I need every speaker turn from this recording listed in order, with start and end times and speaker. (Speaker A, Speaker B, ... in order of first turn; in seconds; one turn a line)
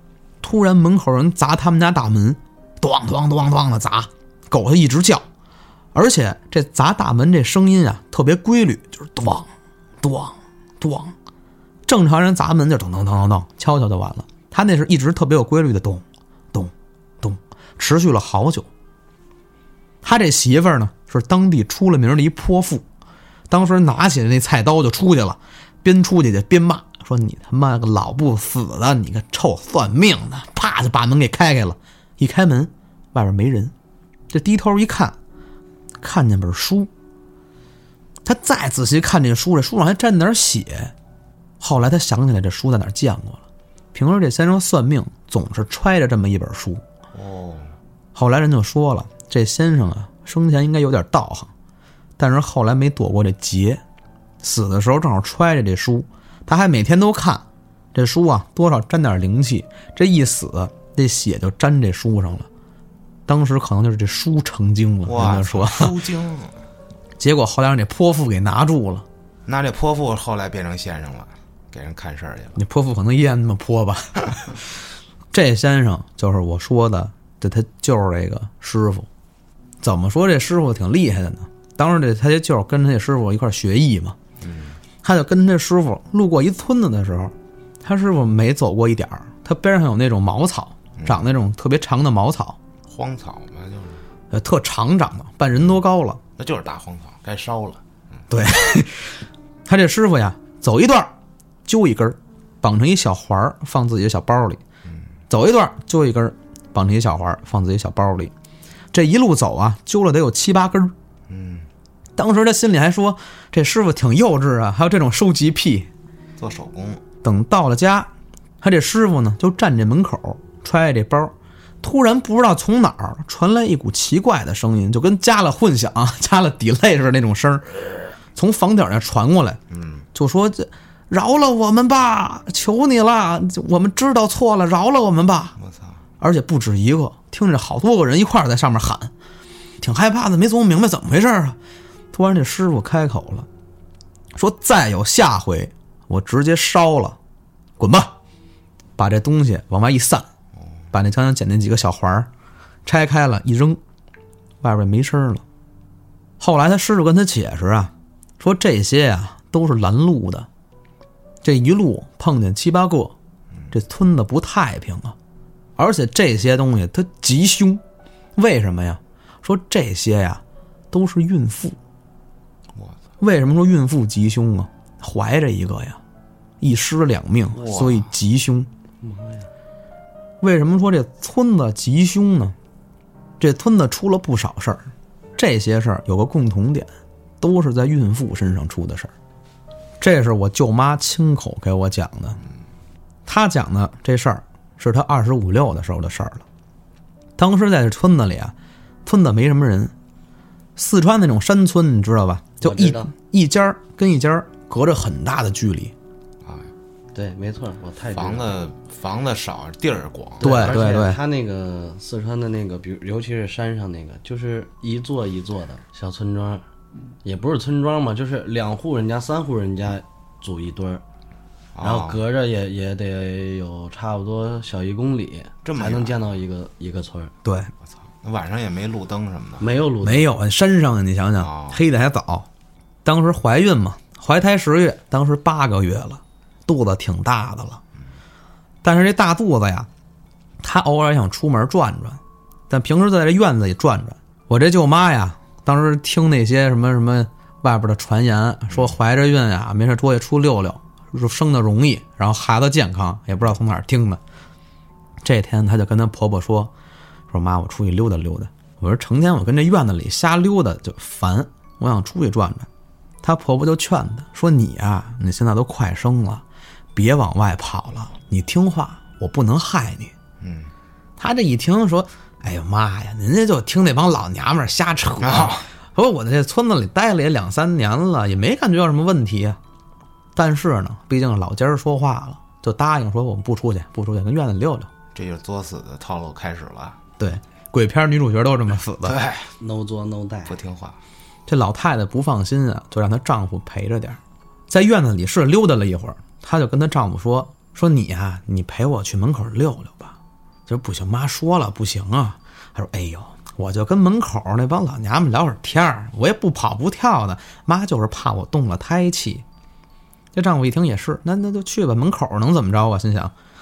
Speaker A: 0.4-5.2
Speaker A: 5.9-9.5
Speaker A: 10.0-11.1
Speaker A: 11.8-18.7
Speaker A: 20.0-22.8
Speaker A: 23.5-33.7
Speaker A: 34.3-35.1
Speaker A: 36.0-36.9
Speaker A: 38.2-40.9
Speaker A: 41.6-43.4
Speaker A: 43.9-46.8
Speaker B: 47.1-47.7
Speaker A: 48.1-51.5
Speaker A: 52.2-53.8
Speaker A: 54.4-62.5
Speaker A: 63.3-65.9
Speaker B: 65.0-66.5
Speaker A: 67.2-69.0
Speaker B: 69.5-72.6
Speaker A: 72.5-74.7
Speaker A: 75.3-79.1
Speaker A: 79.8-84.2
Speaker B: 84.4-84.8
Speaker A: 85.0-92.6
Speaker B: 91.0-91.2
Speaker B: 92.9-94.0
Speaker A: 94.3-96.2
Speaker B: 96.4-97.8
Speaker A: 98.3-101.1
Speaker A: 101.7-104.6
Speaker A: 105.3-108.3
Speaker A: 108.9-110.9
Speaker B: 111.3-111.7
Speaker A: 112.2-115.9
Speaker B: 116.4-117.0
Speaker A: 117.2-118.1
Speaker A: 118.6-129.6
Speaker B: 129.7-130.1
Speaker A: 130.1-135.6
Speaker B: 135.6-136.0
Speaker A: 136.2-139.1
Speaker A: 139.8-141.6
Speaker A: 142.1-143.5
Speaker A: 144.3-147.2
Speaker A: 147.8-148.1
Speaker A: 149.0-150.2
Speaker A: 150.9-152.3
Speaker A: 152.8-153.8
Speaker A: 154.6-155.4
Speaker A: 156.4-160.5
Speaker A: 161.4-163.1
Speaker A: 163.7-165.1
Speaker A: 165.8-167.8
Speaker A: 168.4-171.8
Speaker A: 173.2-176.0
Speaker A: 176.6-178.7
Speaker B: 177.5-178.1
Speaker C: 179.0-179.5
Speaker A: 180.4-182.5
Speaker A: 183.4-189.1
Speaker A: 190.0-192.4
Speaker A: 193.2-196.4
Speaker A: 197.4-198.5
Speaker A: 199.0-199.9
Speaker A: 200.8-205.9
Speaker C: 202.6-203.1
Speaker B: 206.4-206.7
Speaker C: 207.1-208.6
Speaker B: 208.1-210.8
Speaker C: 210.4-216.6
Speaker A: 210.4-211.2
Speaker C: 217.2-221.0
Speaker B: 221.7-222.2
Speaker C: 221.8-227.3
Speaker B: 225.6-226.2
Speaker A: 227.4-227.7
Speaker B: 228.2-229.7
Speaker C: 229.6-230.3
Speaker A: 230.0-232.5
Speaker B: 231.4-231.8
Speaker A: 233.0-237.8
Speaker A: 238.8-239.9
Speaker A: 240.6-254.2
Speaker A: 255.2-256.7
Speaker A: 257.3-262.7
Speaker A: 263.2-266.4
Speaker A: 266.9-270.1
Speaker B: 270.4-270.7
Speaker A: 271.2-279.6
Speaker B: 275.2-275.6
Speaker A: 280.3-284.9
Speaker B: 285.1-287.0
Speaker A: 287.2-289.2
Speaker B: 289.0-289.5
Speaker C: 289.6-290.6
Speaker B: 290.4-291.0
Speaker A: 291.5-309.4
Speaker A: 310.3-313.3